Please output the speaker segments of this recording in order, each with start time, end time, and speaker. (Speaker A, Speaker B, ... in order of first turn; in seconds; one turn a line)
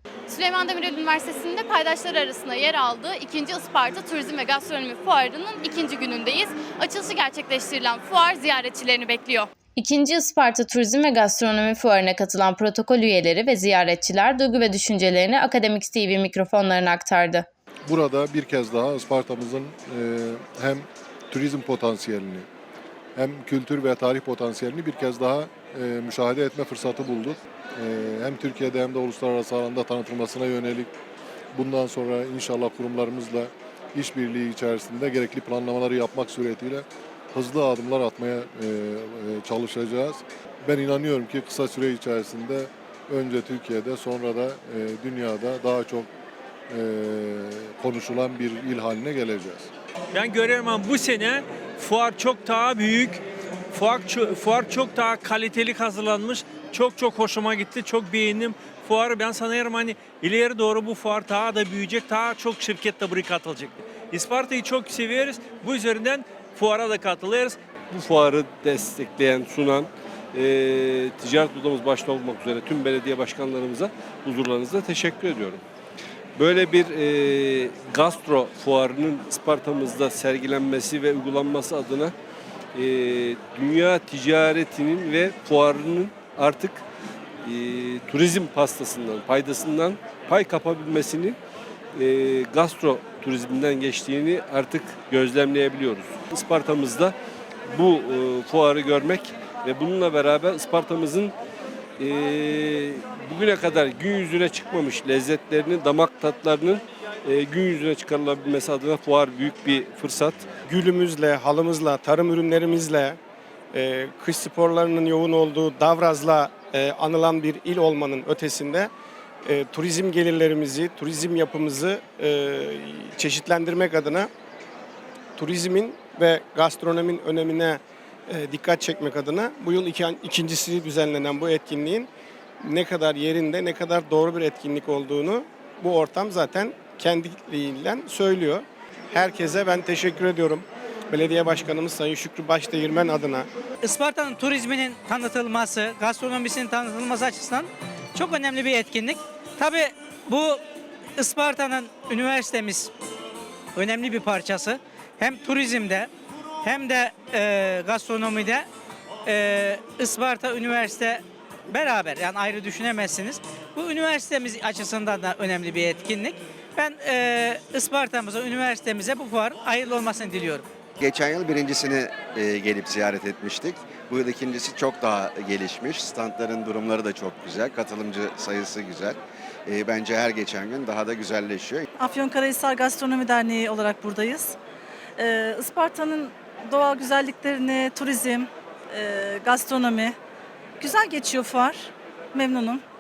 Speaker A: 0.3-9.5
Speaker B: 9.8-17.5
Speaker C: 17.9-22.5
Speaker C: 23.2-30.9
Speaker C: 31.5-46.1
Speaker C: 46.7-49.7
Speaker D: 50.1-67.6
Speaker E: 67.9-75.6
Speaker E: 76.4-82.1
Speaker E: 82.8-86.8
Speaker E: 87.4-91.4
Speaker E: 92.0-97.2
Speaker E: 97.7-101.3
Speaker E: 102.0-110.5
Speaker F: 110.7-113.2
Speaker F: 113.7-118.9
Speaker F: 119.5-124.3
Speaker F: 125.4-132.1
Speaker F: 132.6-143.5
Speaker G: 143.8-150.6
Speaker G: 151.2-152.9
Speaker G: 153.8-156.1
Speaker G: 156.6-158.7
Speaker G: 159.3-170.7
Speaker H: 171.0-181.9
Speaker I: 182.0-184.6
Speaker I: 185.2-190.2
Speaker I: 190.8-192.8